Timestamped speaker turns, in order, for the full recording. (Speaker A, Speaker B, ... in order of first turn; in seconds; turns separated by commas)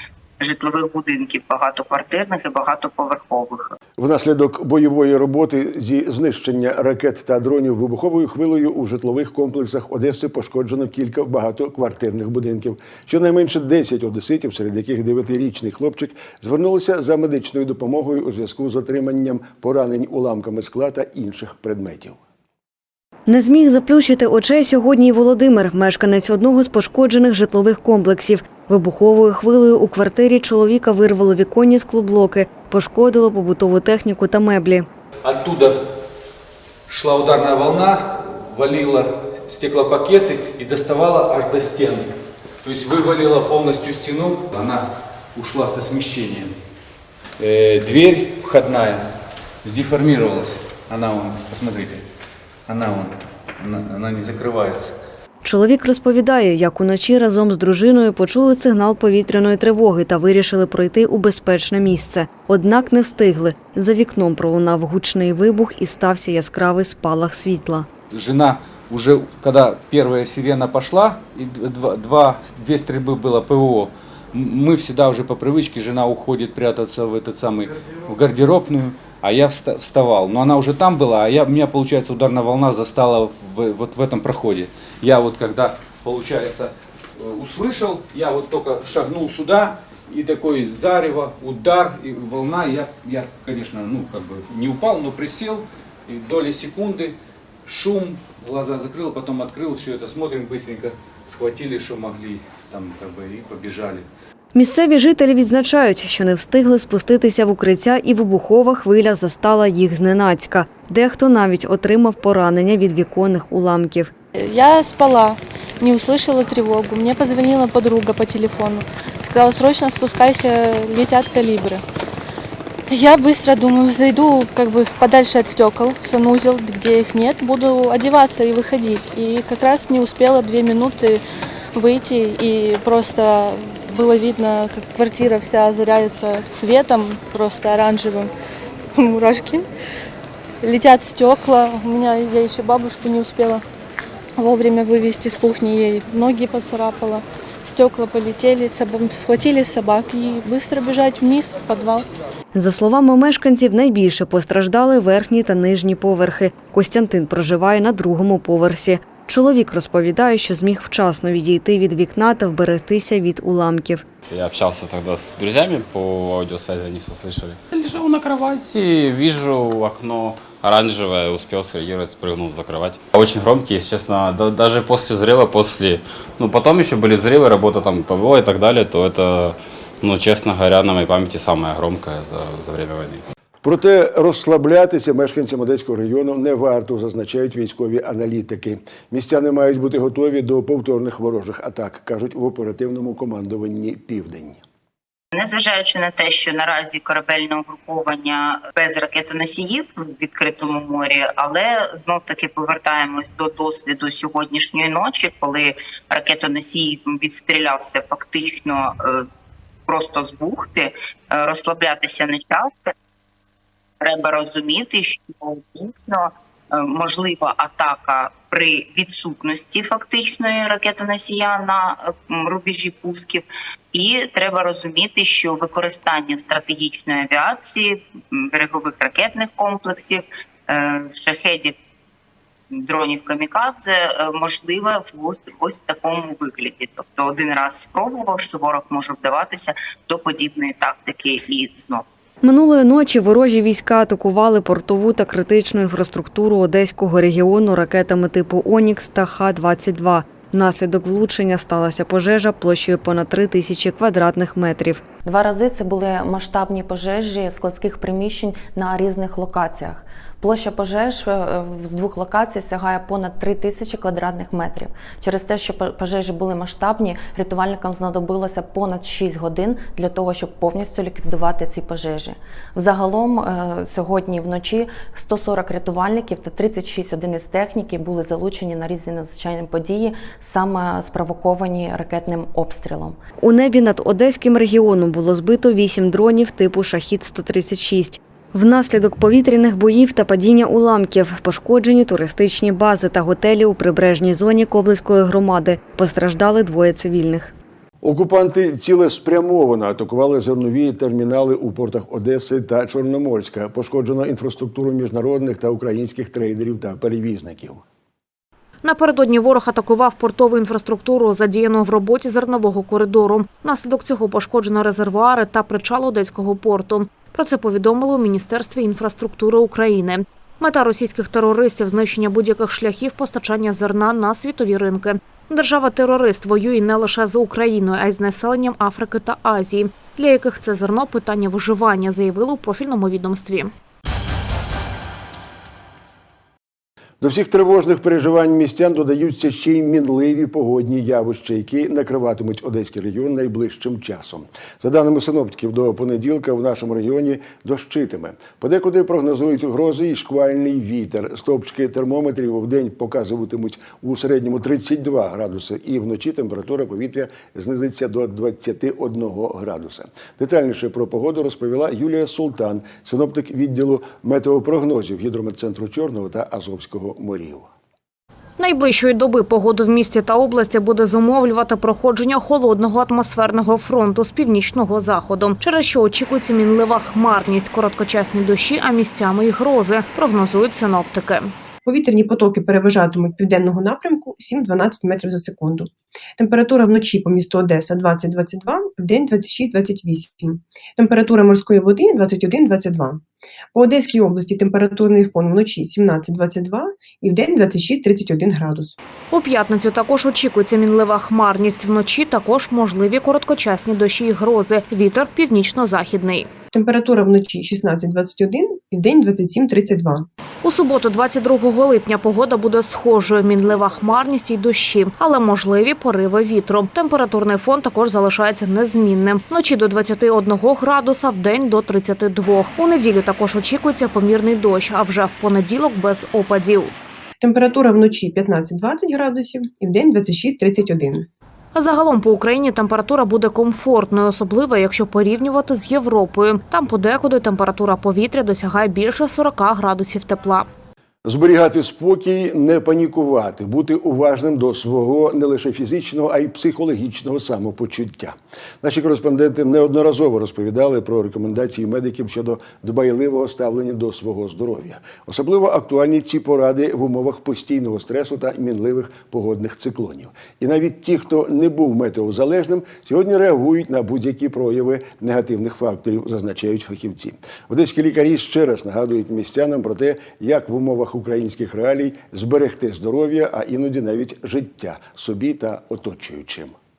Speaker A: 0.4-3.7, Speaker B: 4.0-22.2, Speaker C: 23.3-34.9, Speaker D: 35.2-35.8, Speaker D: 36.9-46.5, Speaker D: 47.4-49.1, Speaker D: 49.6-52.0, Speaker D: 52.7-54.9, Speaker C: 55.4-67.9, Speaker D: 68.1-104.0, Speaker C: 104.5-114.1, Speaker E: 114.3-121.8, Speaker E: 122.9-131.2, Speaker E: 131.7-138.3, Speaker E: 138.9-139.7, Speaker E: 140.6-143.6, Speaker E: 144.4-152.1, Speaker C: 152.5-164.0, Speaker F: 164.3-183.2, Speaker B: 183.6-194.6, Speaker A: 195.3-209.3, Speaker A: 209.9-212.9, Speaker A: 214.0-231.7, Speaker A: 232.7-242.0, Speaker C: 242.4-255.0, Speaker G: 255.2-283.2, Speaker C: 283.4-297.5, Speaker B: 298.0-307.8, Speaker H: 308.8-333.7, Speaker B: 337.2-367.7, Speaker H: 368.6-381.5, Speaker I: 381.9-398.9, Speaker H: 399.3-406.5, Speaker I: 406.7-410.3, Speaker H: 410.6-426.9, Speaker I: 427.4-431.3, Speaker H: 431.7-440.7, Speaker B: 441.2-476.7